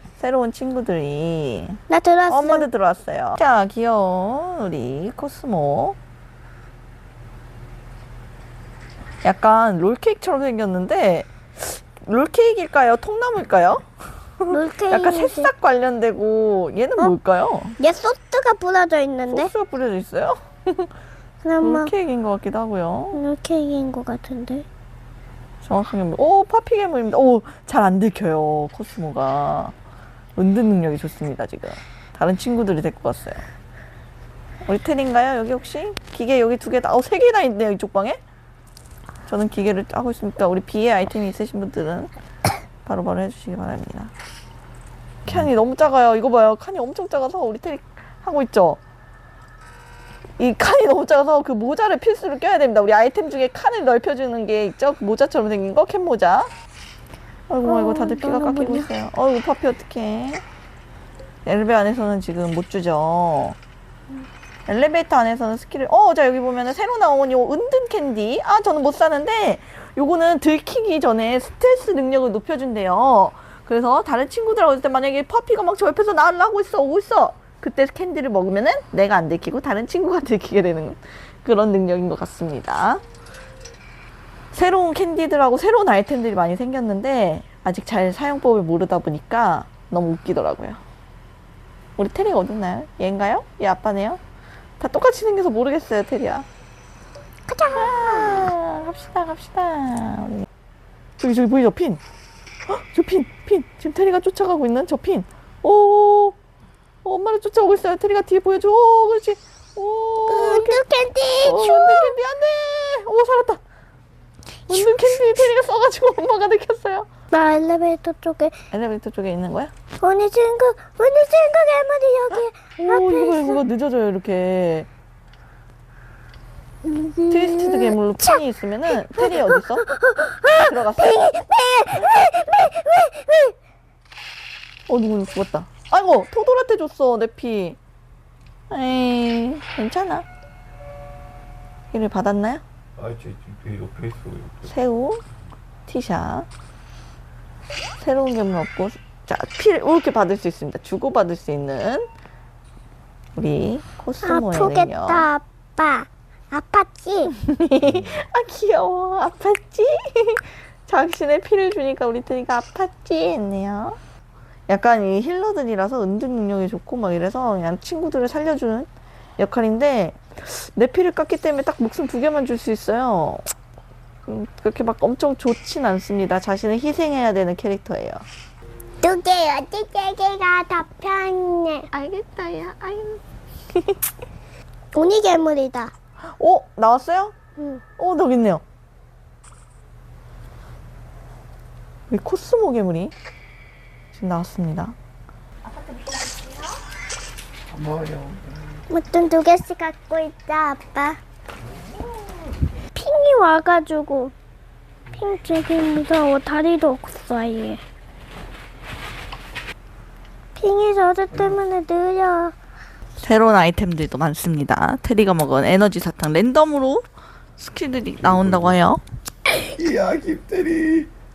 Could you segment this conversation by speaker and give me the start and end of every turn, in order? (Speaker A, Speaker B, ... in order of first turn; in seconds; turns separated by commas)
Speaker A: 0.2-1.8, Speaker B: 1.9-2.7, Speaker A: 2.3-6.0, Speaker A: 9.2-13.8, Speaker A: 14.4-17.8, Speaker B: 14.5-15.5, Speaker B: 17.8-19.5, Speaker A: 19.3-20.9, Speaker B: 21.4-21.9, Speaker A: 21.6-23.2, Speaker B: 23.1-24.6, Speaker A: 25.6-29.7, Speaker A: 30.4-33.4, Speaker A: 34.7-38.2, Speaker A: 39.3-42.1, Speaker A: 42.9-44.1, Speaker A: 45.2-48.8, Speaker A: 50.4-56.5, Speaker A: 57.5-60.4, Speaker B: 57.6-58.9, Speaker A: 61.5-63.6, Speaker A: 64.7-83.0, Speaker A: 84.5-90.8, Speaker A: 92.0-94.2, Speaker A: 94.8-96.5, Speaker B: 97.5-98.5, Speaker A: 97.8-100.5, Speaker A: 101.2-102.0, Speaker A: 102.7-106.4, Speaker A: 107.0-110.8, Speaker B: 110.3-112.1, Speaker A: 111.4-113.6, Speaker A: 114.7-117.1, Speaker B: 117.3-118.5, Speaker A: 118.7-119.7, Speaker B: 120.0-123.6, Speaker A: 122.9-124.9, Speaker B: 126.8-128.4, Speaker A: 127.3-129.8, Speaker B: 129.2-133.6, Speaker A: 130.6-131.4, Speaker A: 134.9-137.8, Speaker A: 138.7-140.3, Speaker A: 141.9-142.6, Speaker C: 143.0-144.7, Speaker A: 144.7-145.2, Speaker A: 145.9-146.5, Speaker A: 148.0-152.1, Speaker A: 153.3-155.3, Speaker B: 154.2-157.3, Speaker A: 157.4-164.0, Speaker A: 164.7-173.4, Speaker A: 174.3-178.2, Speaker B: 179.0-181.9, Speaker A: 181.9-183.2, Speaker B: 184.9-185.9, Speaker A: 186.4-187.3, Speaker A: 188.0-188.6, Speaker A: 192.1-193.1, Speaker A: 194.1-194.9, Speaker C: 197.7-198.4, Speaker B: 198.9-201.2, Speaker B: 202.9-204.3, Speaker B: 205.1-207.8, Speaker B: 210.6-212.5, Speaker A: 213.2-217.0, Speaker A: 217.6-219.0, Speaker C: 219.8-221.1